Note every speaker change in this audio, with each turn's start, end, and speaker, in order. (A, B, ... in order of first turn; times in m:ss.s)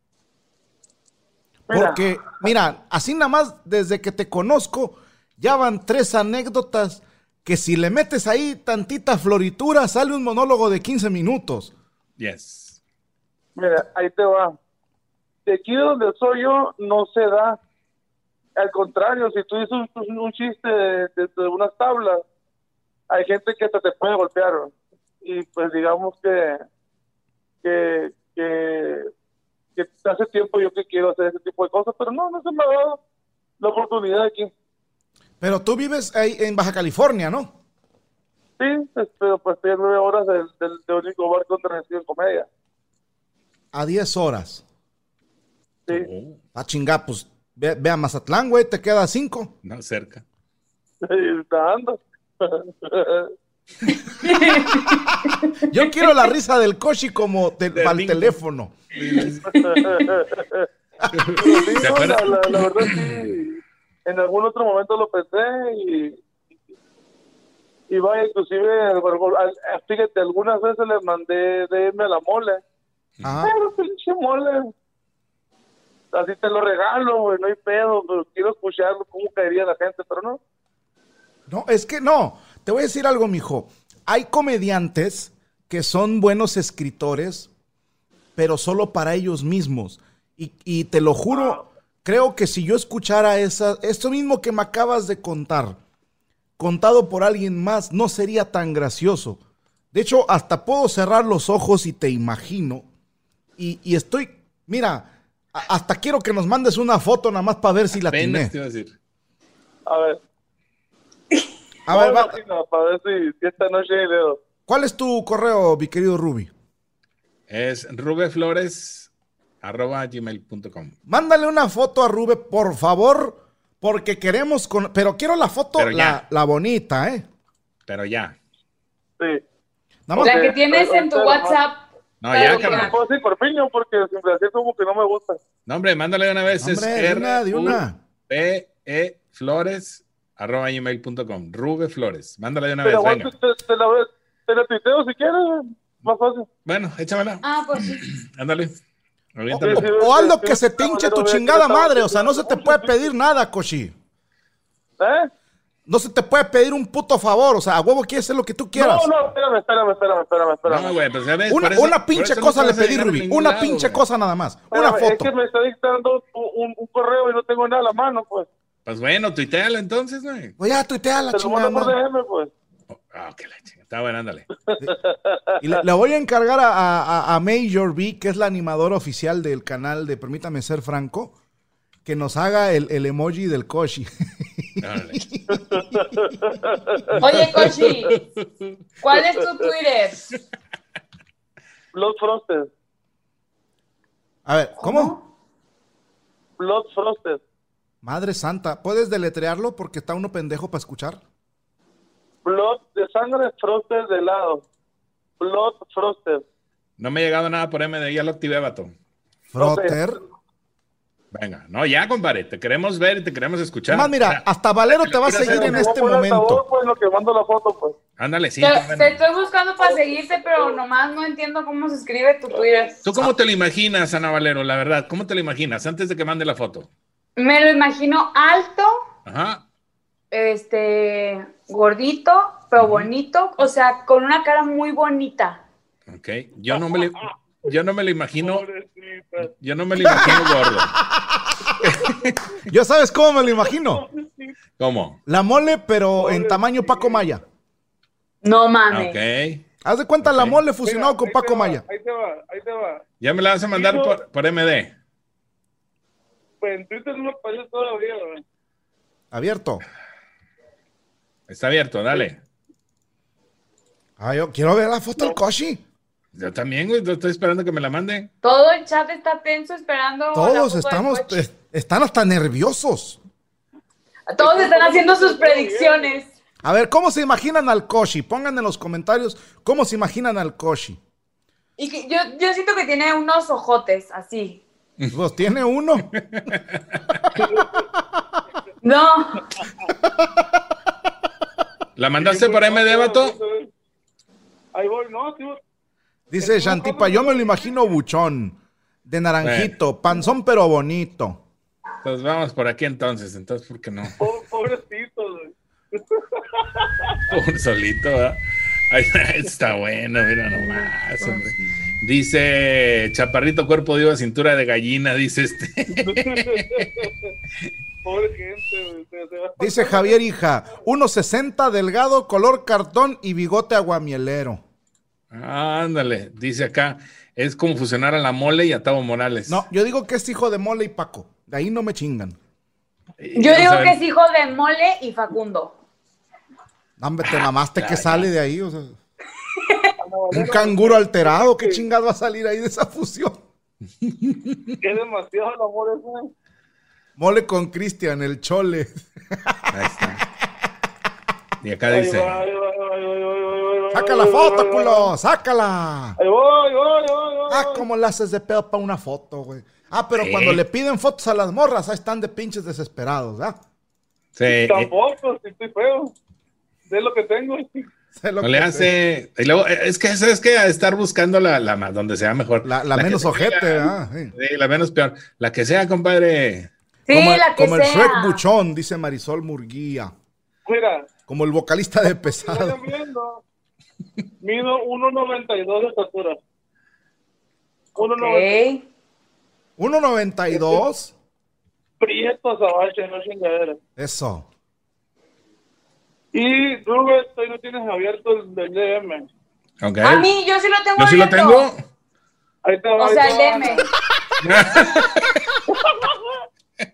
0:01.7-0:02.4 A
0:01.7-0:11.7 B
0:12.2-0:12.8 C
0:13.6-0:14.5 A
0:15.4-0:17.6 A
0:18.6-0:22.2 A
0:23.1-0:26.6 A
0:27.6-0:29.1 A
0:29.8-0:33.0 A
0:33.6-0:34.5 A
0:35.4-0:37.5 B
0:38.6-0:42.5 A
0:43.7-0:44.6 B
0:45.9-0:46.4 C
0:46.5-0:49.5 B
0:49.6-0:50.2 C
0:51.0-0:53.3 A
0:54.2-0:56.0 D
0:55.7-0:58.7 B
0:57.7-0:58.3 C
0:58.9-0:59.5 C
0:59.4-1:00.7 A
1:01.1-1:03.3 C
1:01.4-1:06.2 A
1:07.9-1:12.6 A
1:13.2-1:13.5 B
1:13.4-1:14.7 A
1:16.1-1:20.4 A
1:21.5-1:27.5 B
1:28.4-1:35.8 B
1:31.3-1:31.6 A
1:36.6-1:39.4 B
1:39.9-1:42.8 B
1:43.6-1:48.5 B
1:48.0-1:48.9 C
1:49.9-1:50.2 A
1:51.9-1:52.3 B
1:51.9-1:54.4 A
1:54.7-1:56.5 B
1:57.5-1:59.1 C
1:59.6-2:00.9 C
2:01.1-2:07.2 B
2:05.8-2:06.2 C
2:07.9-2:08.4 C
2:10.1-2:10.4 B
2:10.2-2:11.6 A
2:10.2-2:13.0 D
2:12.2-2:13.0 C
2:12.4-2:15.4 A
2:15.7-2:23.3 C
2:16.6-2:18.0 B
2:22.8-2:26.5 A
2:26.6-2:28.7 C
2:27.4-2:28.0 D
2:29.4-2:29.9 C
2:29.5-2:33.9 B
2:29.6-2:33.0 A
2:35.0-2:35.3 A
2:35.9-2:39.1 B
2:38.7-2:40.9 A
2:40.7-2:44.0 C
2:41.5-2:45.3 B
2:44.7-2:48.5 A
2:48.8-2:50.5 C
2:50.6-2:51.9 B
2:51.3-2:52.5 A
2:52.9-2:54.5 C
2:54.7-2:55.8 A
2:55.6-3:01.3 B
3:02.0-3:06.3 B
3:04.8-3:05.2 C
3:05.5-3:07.2 A
3:07.2-3:08.1 D
3:07.6-3:08.7 C
3:09.0-3:10.3 D
3:11.9-3:12.7 A
3:14.4-3:15.1 B
3:14.8-3:15.2 D
3:16.6-3:17.4 A
3:18.0-3:21.2 B
3:22.4-3:24.6 A
3:25.4-3:26.4 A
3:27.0-3:28.9 C
3:29.5-3:30.2 B
3:29.6-3:30.0 A
3:31.3-3:34.4 C
3:33.9-3:36.6 B
3:35.0-3:35.8 C
3:35.2-3:38.0 A
3:38.2-3:39.2 C
3:38.6-3:43.0 D
3:40.5-3:40.7 A
3:43.0-3:46.9 C
3:47.4-3:49.0 D
3:49.2-3:49.6 C
3:50.3-3:55.6 D
3:52.8-3:53.1 C
3:56.1-3:58.6 C
3:56.7-3:57.3 A
3:58.4-3:59.5 A
3:59.6-4:00.9 C
4:00.0-4:01.9 B
4:02.7-4:04.0 B
4:03.8-4:04.6 A
4:04.8-4:05.2 C
4:05.3-4:07.4 B
4:06.2-4:07.2 A
4:08.4-4:09.2 D
4:08.9-4:09.6 C
4:09.8-4:11.8 B
4:10.2-4:10.6 C
4:10.8-4:13.0 A
4:13.2-4:14.9 C
4:13.7-4:14.2 A
4:16.6-4:18.4 A
4:19.3-4:19.8 B
4:21.5-4:22.4 C
4:24.2-4:25.8 B
4:26.3-4:28.3 C
4:28.4-4:31.4 D
4:30.3-4:33.2 B
4:34.3-4:36.3 D
4:34.4-4:36.1 A
4:36.6-4:41.0 B
4:41.8-4:44.6 D
4:45.1-4:46.1 B
4:46.1-4:47.0 C
4:47.4-4:47.8 A
4:48.8-4:49.5 D
4:52.0-4:53.4 C
4:52.2-4:53.7 A
4:54.7-4:55.6 A
4:56.3-5:01.4 B
4:56.4-4:57.6 A
4:59.4-4:59.7 C
5:02.0-5:04.2 C
5:04.2-5:07.2 A
5:07.3-5:08.4 C
5:08.9-5:16.8 C
5:15.9-5:17.3 A
5:18.0-5:20.2 A
5:19.6-5:24.6 B
5:25.3-5:29.6 C
5:29.5-5:32.4 B
5:33.2-5:34.0 C
5:33.4-5:35.7 D
5:37.0-5:39.0 B
5:37.8-5:38.3 C
5:39.6-5:39.9 D
5:40.0-5:41.8 A
5:40.3-5:43.4 B
5:44.1-5:44.3 C
5:44.8-5:46.3 A
5:47.2-5:49.7 B
5:49.7-5:50.2 C
5:51.6-5:52.4 C
5:51.9-5:55.1 A
5:53.9-5:56.2 B
5:56.2-5:57.8 A
5:57.5-6:03.6 B
6:00.2-6:00.6 C
6:04.4-6:04.9 C
6:04.5-6:06.1 A
6:06.9-6:07.8 A
6:08.1-6:08.9 B
6:08.4-6:16.7 C
6:12.6-6:14.3 B
6:17.1-6:18.4 D
6:17.1-6:20.1 B
6:20.6-6:21.1 A
6:21.3-6:22.8 B
6:22.1-6:23.4 A
6:24.4-6:26.4 A
6:28.0-6:28.6 A
6:28.2-6:28.8 D
6:29.8-6:31.1 B
6:32.0-6:33.8 A
6:34.0-6:34.4 B
6:36.3-6:39.3 A
6:39.8-6:40.3 C
6:40.0-6:41.6 D
6:41.0-6:41.8 C
6:42.6-6:43.9 A
6:43.0-6:43.8 D
6:44.4-6:45.4 C
6:45.7-6:46.4 A